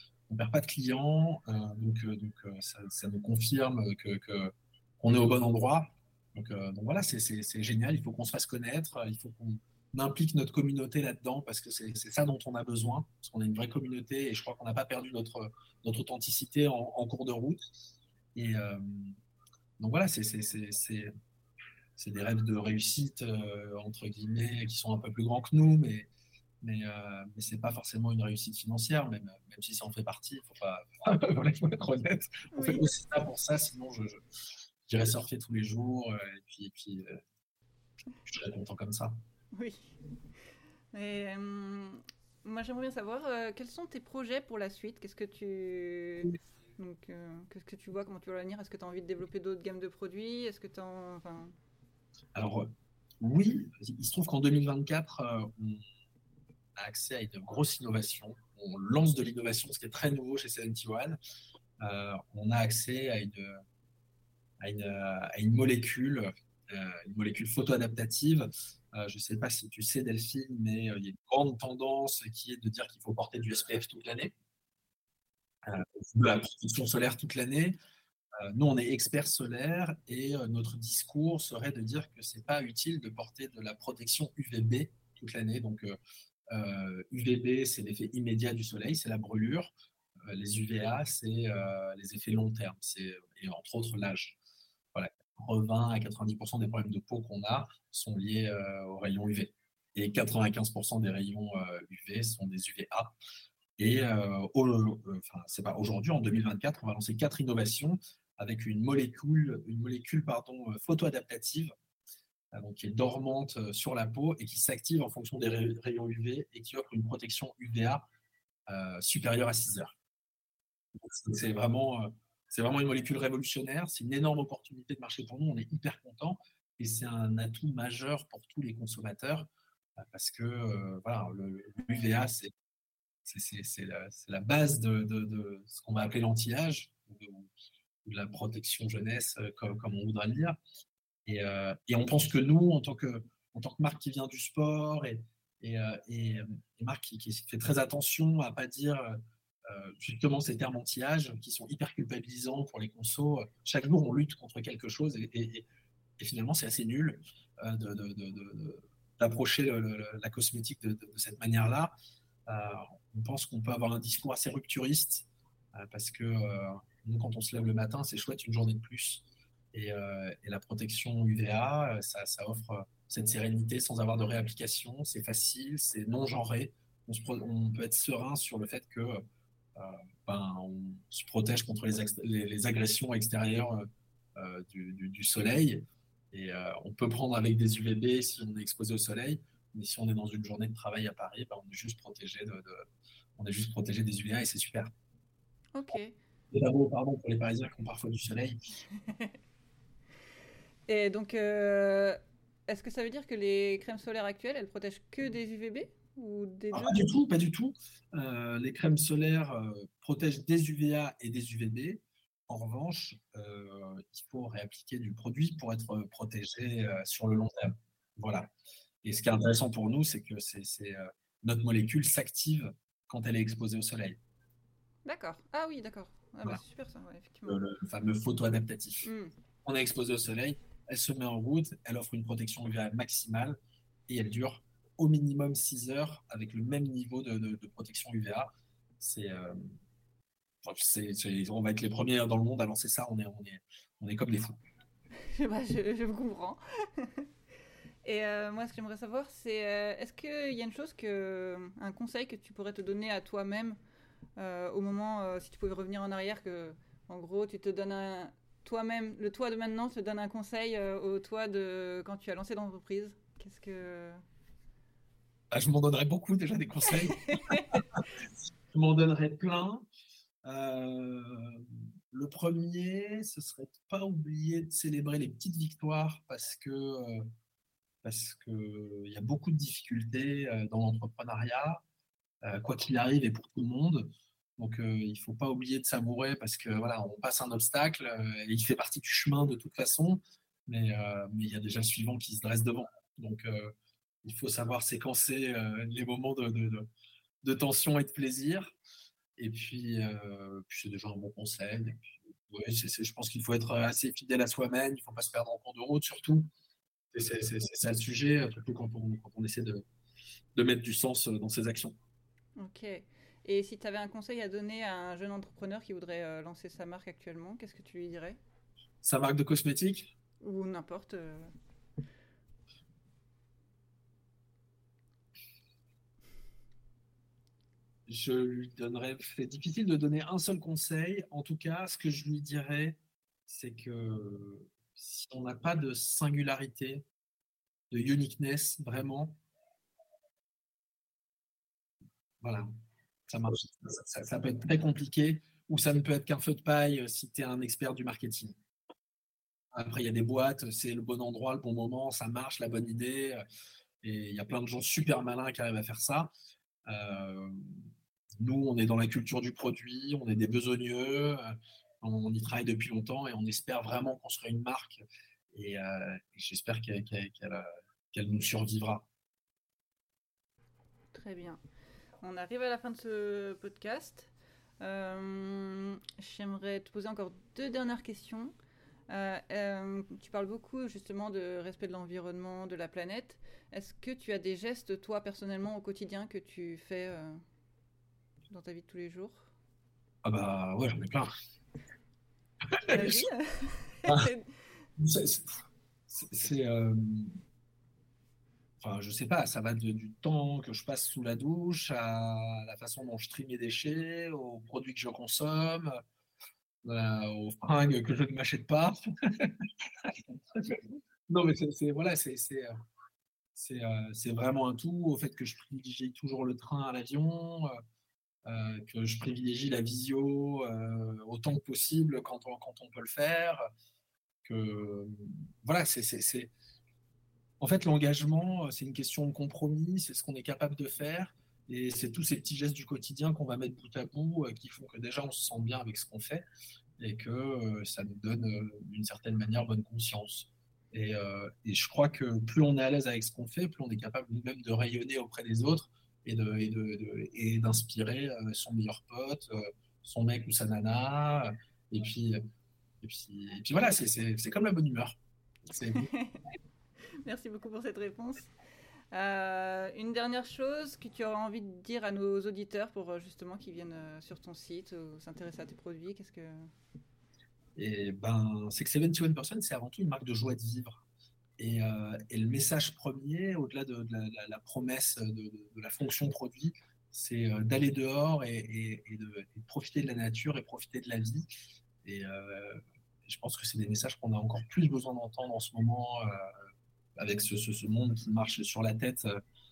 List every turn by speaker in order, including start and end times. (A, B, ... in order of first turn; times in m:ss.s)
0:00.3-0:17.6 A
0:18.4-0:19.2 A
0:19.8-0:21.1 A
0:22.0-0:26.1 A
0:26.6-0:34.2 A
0:32.5-0:32.9 B
0:34.9-0:37.2 A
0:38.3-0:39.2 A
0:39.5-0:39.9 B
0:40.9-0:51.5 B
0:52.4-0:55.8 A
0:56.8-1:01.2 A
1:01.8-1:03.6 A
1:04.6-1:14.3 A
1:15.6-1:17.8 A
1:18.4-1:26.0 A
1:26.5-1:29.7 A
1:30.3-1:34.4 A
1:34.9-1:43.2 A
1:43.8-1:51.7 A
1:52.5-1:58.0 A
1:58.7-2:00.0 A
2:01.0-2:12.5 A
2:13.2-2:17.5 A
2:18.0-2:20.6 A
2:21.3-2:35.6 A
2:36.2-2:41.9 A
2:42.5-2:59.2 A
2:59.8-3:14.9 A
3:15.8-3:16.2 B
3:16.5-3:18.6 A
3:19.1-3:19.3 B
3:20.9-3:27.0 B
3:26.7-3:38.5 A
3:39.0-3:44.2 A
3:45.1-3:47.6 B
3:47.5-3:49.1 A
3:49.0-3:49.3 B
3:49.6-3:53.6 A
3:54.1-3:58.5 A
3:59.0-3:59.7 A
4:00.6-4:04.6 A
4:05.3-4:07.3 B
4:08.0-4:13.8 B
4:14.4-4:24.2 B
4:25.5-4:28.0 A
4:27.3-4:27.7 B
4:28.7-4:29.8 A
4:30.5-4:37.3 A
4:38.0-4:41.8 A
4:42.4-4:56.9 A
4:57.4-4:58.8 A
4:59.4-5:06.5 A
5:07.1-5:09.8 A
5:10.6-5:12.0 A
5:12.6-5:18.4 B
5:19.0-5:20.1 A
5:20.4-5:21.5 B
5:28.1-5:37.1 A
5:37.9-5:39.4 A
5:42.4-5:42.7 A
5:43.3-5:48.6 A
5:49.8-5:53.4 A
5:54.0-5:56.3 A
5:56.9-5:57.9 A
5:58.4-6:09.1 A
6:11.1-6:11.6 B
6:12.2-6:14.3 B
6:14.8-6:18.5 B
6:19.1-6:27.4 B
6:28.5-6:29.5 B
6:30.2-6:31.3 A
6:32.8-6:33.2 A
6:32.9-6:34.5 B
6:35.0-6:37.4 A
6:38.8-6:46.0 A
6:46.8-6:52.7 A
6:53.6-6:57.8 A
6:58.4-7:03.6 A
7:04.4-7:06.5 A
7:07.6-7:16.4 A
7:17.0-7:32.4 A
7:33.0-7:35.2 A
7:35.7-7:36.1 A
7:35.9-7:36.4 B
7:37.2-7:38.5 B
7:39.1-7:46.7 B
7:47.8-7:51.0 A
7:51.6-8:01.5 A
8:02.0-8:06.6 A
8:07.2-8:09.4 A